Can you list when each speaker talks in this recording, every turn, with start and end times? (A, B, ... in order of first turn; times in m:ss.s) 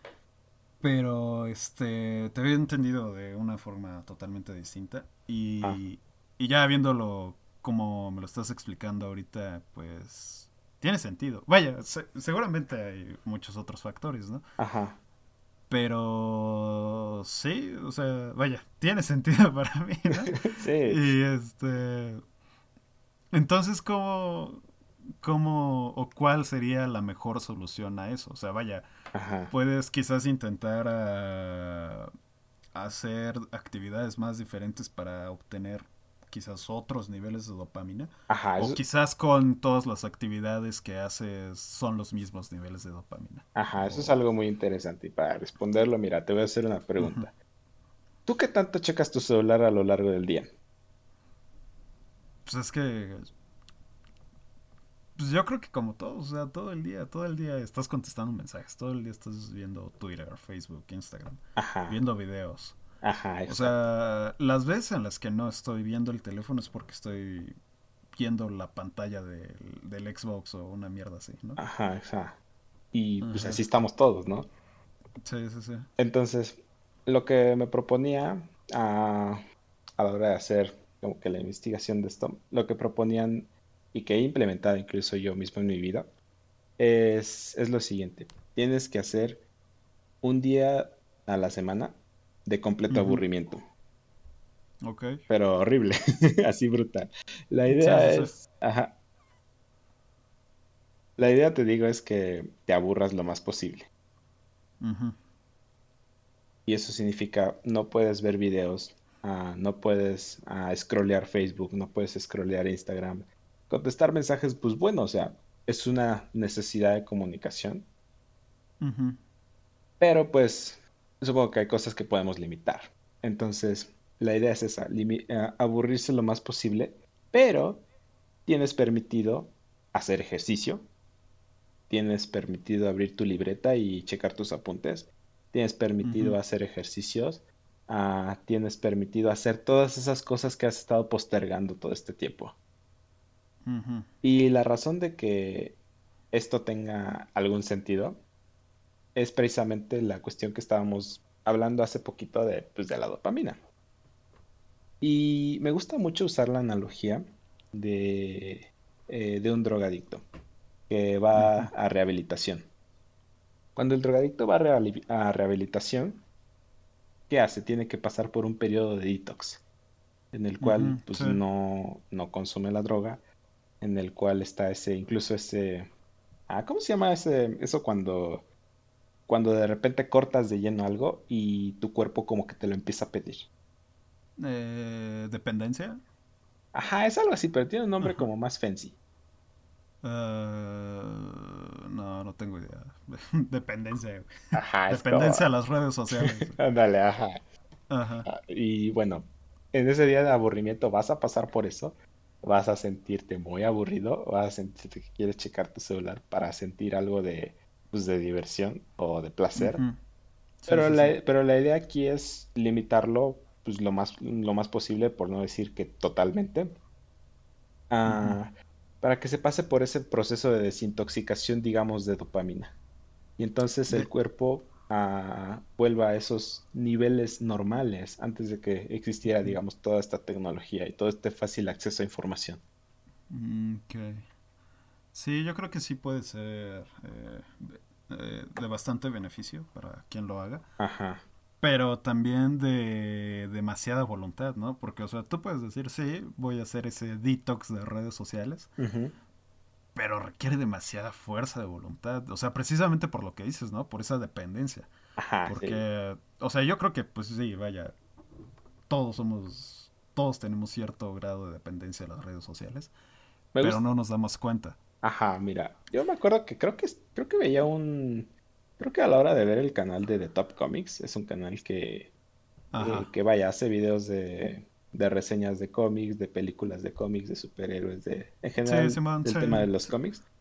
0:00.8-0:14.4 A
0:14.6-0:15.0 B
0:15.7-0:22.2 A
0:20.4-0:21.1 B
0:23.3-0:24.6 A
0:25.2-0:28.9 A
0:29.1-0:29.5 B
0:29.5-0:32.1 A
0:32.7-0:44.2 A
0:38.3-0:38.8 B
0:43.5-0:47.3 B
0:47.0-0:47.2 A
0:48.2-0:50.5 B
0:52.4-0:53.3 A
0:55.2-1:02.8 A
1:01.6-1:02.0 B
1:03.0-1:03.8 B
1:03.5-1:07.6 A
1:08.1-1:11.6 A
1:11.6-1:12.4 B
1:12.9-1:14.5 B
1:13.2-1:13.6 A
1:15.2-1:15.9 A
1:16.0-1:19.4 B
1:20.0-1:26.1 B
1:26.8-1:29.4 B
1:30.2-1:33.6 B
1:32.9-1:33.2 A
1:34.8-1:35.2 A
1:35.3-1:39.0 B
1:37.7-1:38.3 A
1:41.2-1:43.9 B
1:44.8-1:45.2 A
1:46.6-1:57.9 B
1:58.8-1:59.2 A
2:00.0-2:07.8 B
2:08.4-2:10.9 B
2:11.9-2:22.6 B
2:16.0-2:16.4 A
2:23.6-2:24.1 A
2:24.2-2:25.8 B
2:26.3-2:28.2 B
2:29.1-2:33.6 B
2:35.0-2:40.2 B
2:40.9-2:42.7 B
2:41.3-2:41.7 A
2:43.7-2:46.2 B
2:47.3-2:49.6 B
2:50.3-2:53.2 B
2:50.6-2:51.4 A
2:53.8-2:55.9 B
2:56.5-2:58.5 B
2:59.3-3:03.5 B
3:04.4-3:06.0 A
3:06.7-3:09.0 B
3:10.0-3:16.6 A
3:14.5-3:15.5 B
3:16.1-3:17.4 B
3:17.9-3:18.3 A
3:18.2-3:29.8 B
3:29.6-3:30.0 A
3:30.6-3:31.2 A
3:30.7-3:36.8 B
3:37.9-3:42.7 B
3:38.0-3:38.4 A
3:43.4-3:52.6 B
3:53.3-3:54.2 A
3:55.1-4:00.6 A
4:00.8-4:01.2 B
4:01.6-4:08.7 A
4:08.8-4:09.1 B
4:09.9-4:14.9 A
4:15.2-4:15.8 B
4:15.4-4:18.0 A
4:18.9-4:22.9 A
4:23.5-4:23.8 B
4:23.6-4:24.8 A
4:25.0-4:32.1 B
4:32.7-4:33.1 A
4:32.8-4:40.2 B
4:38.6-4:39.9 A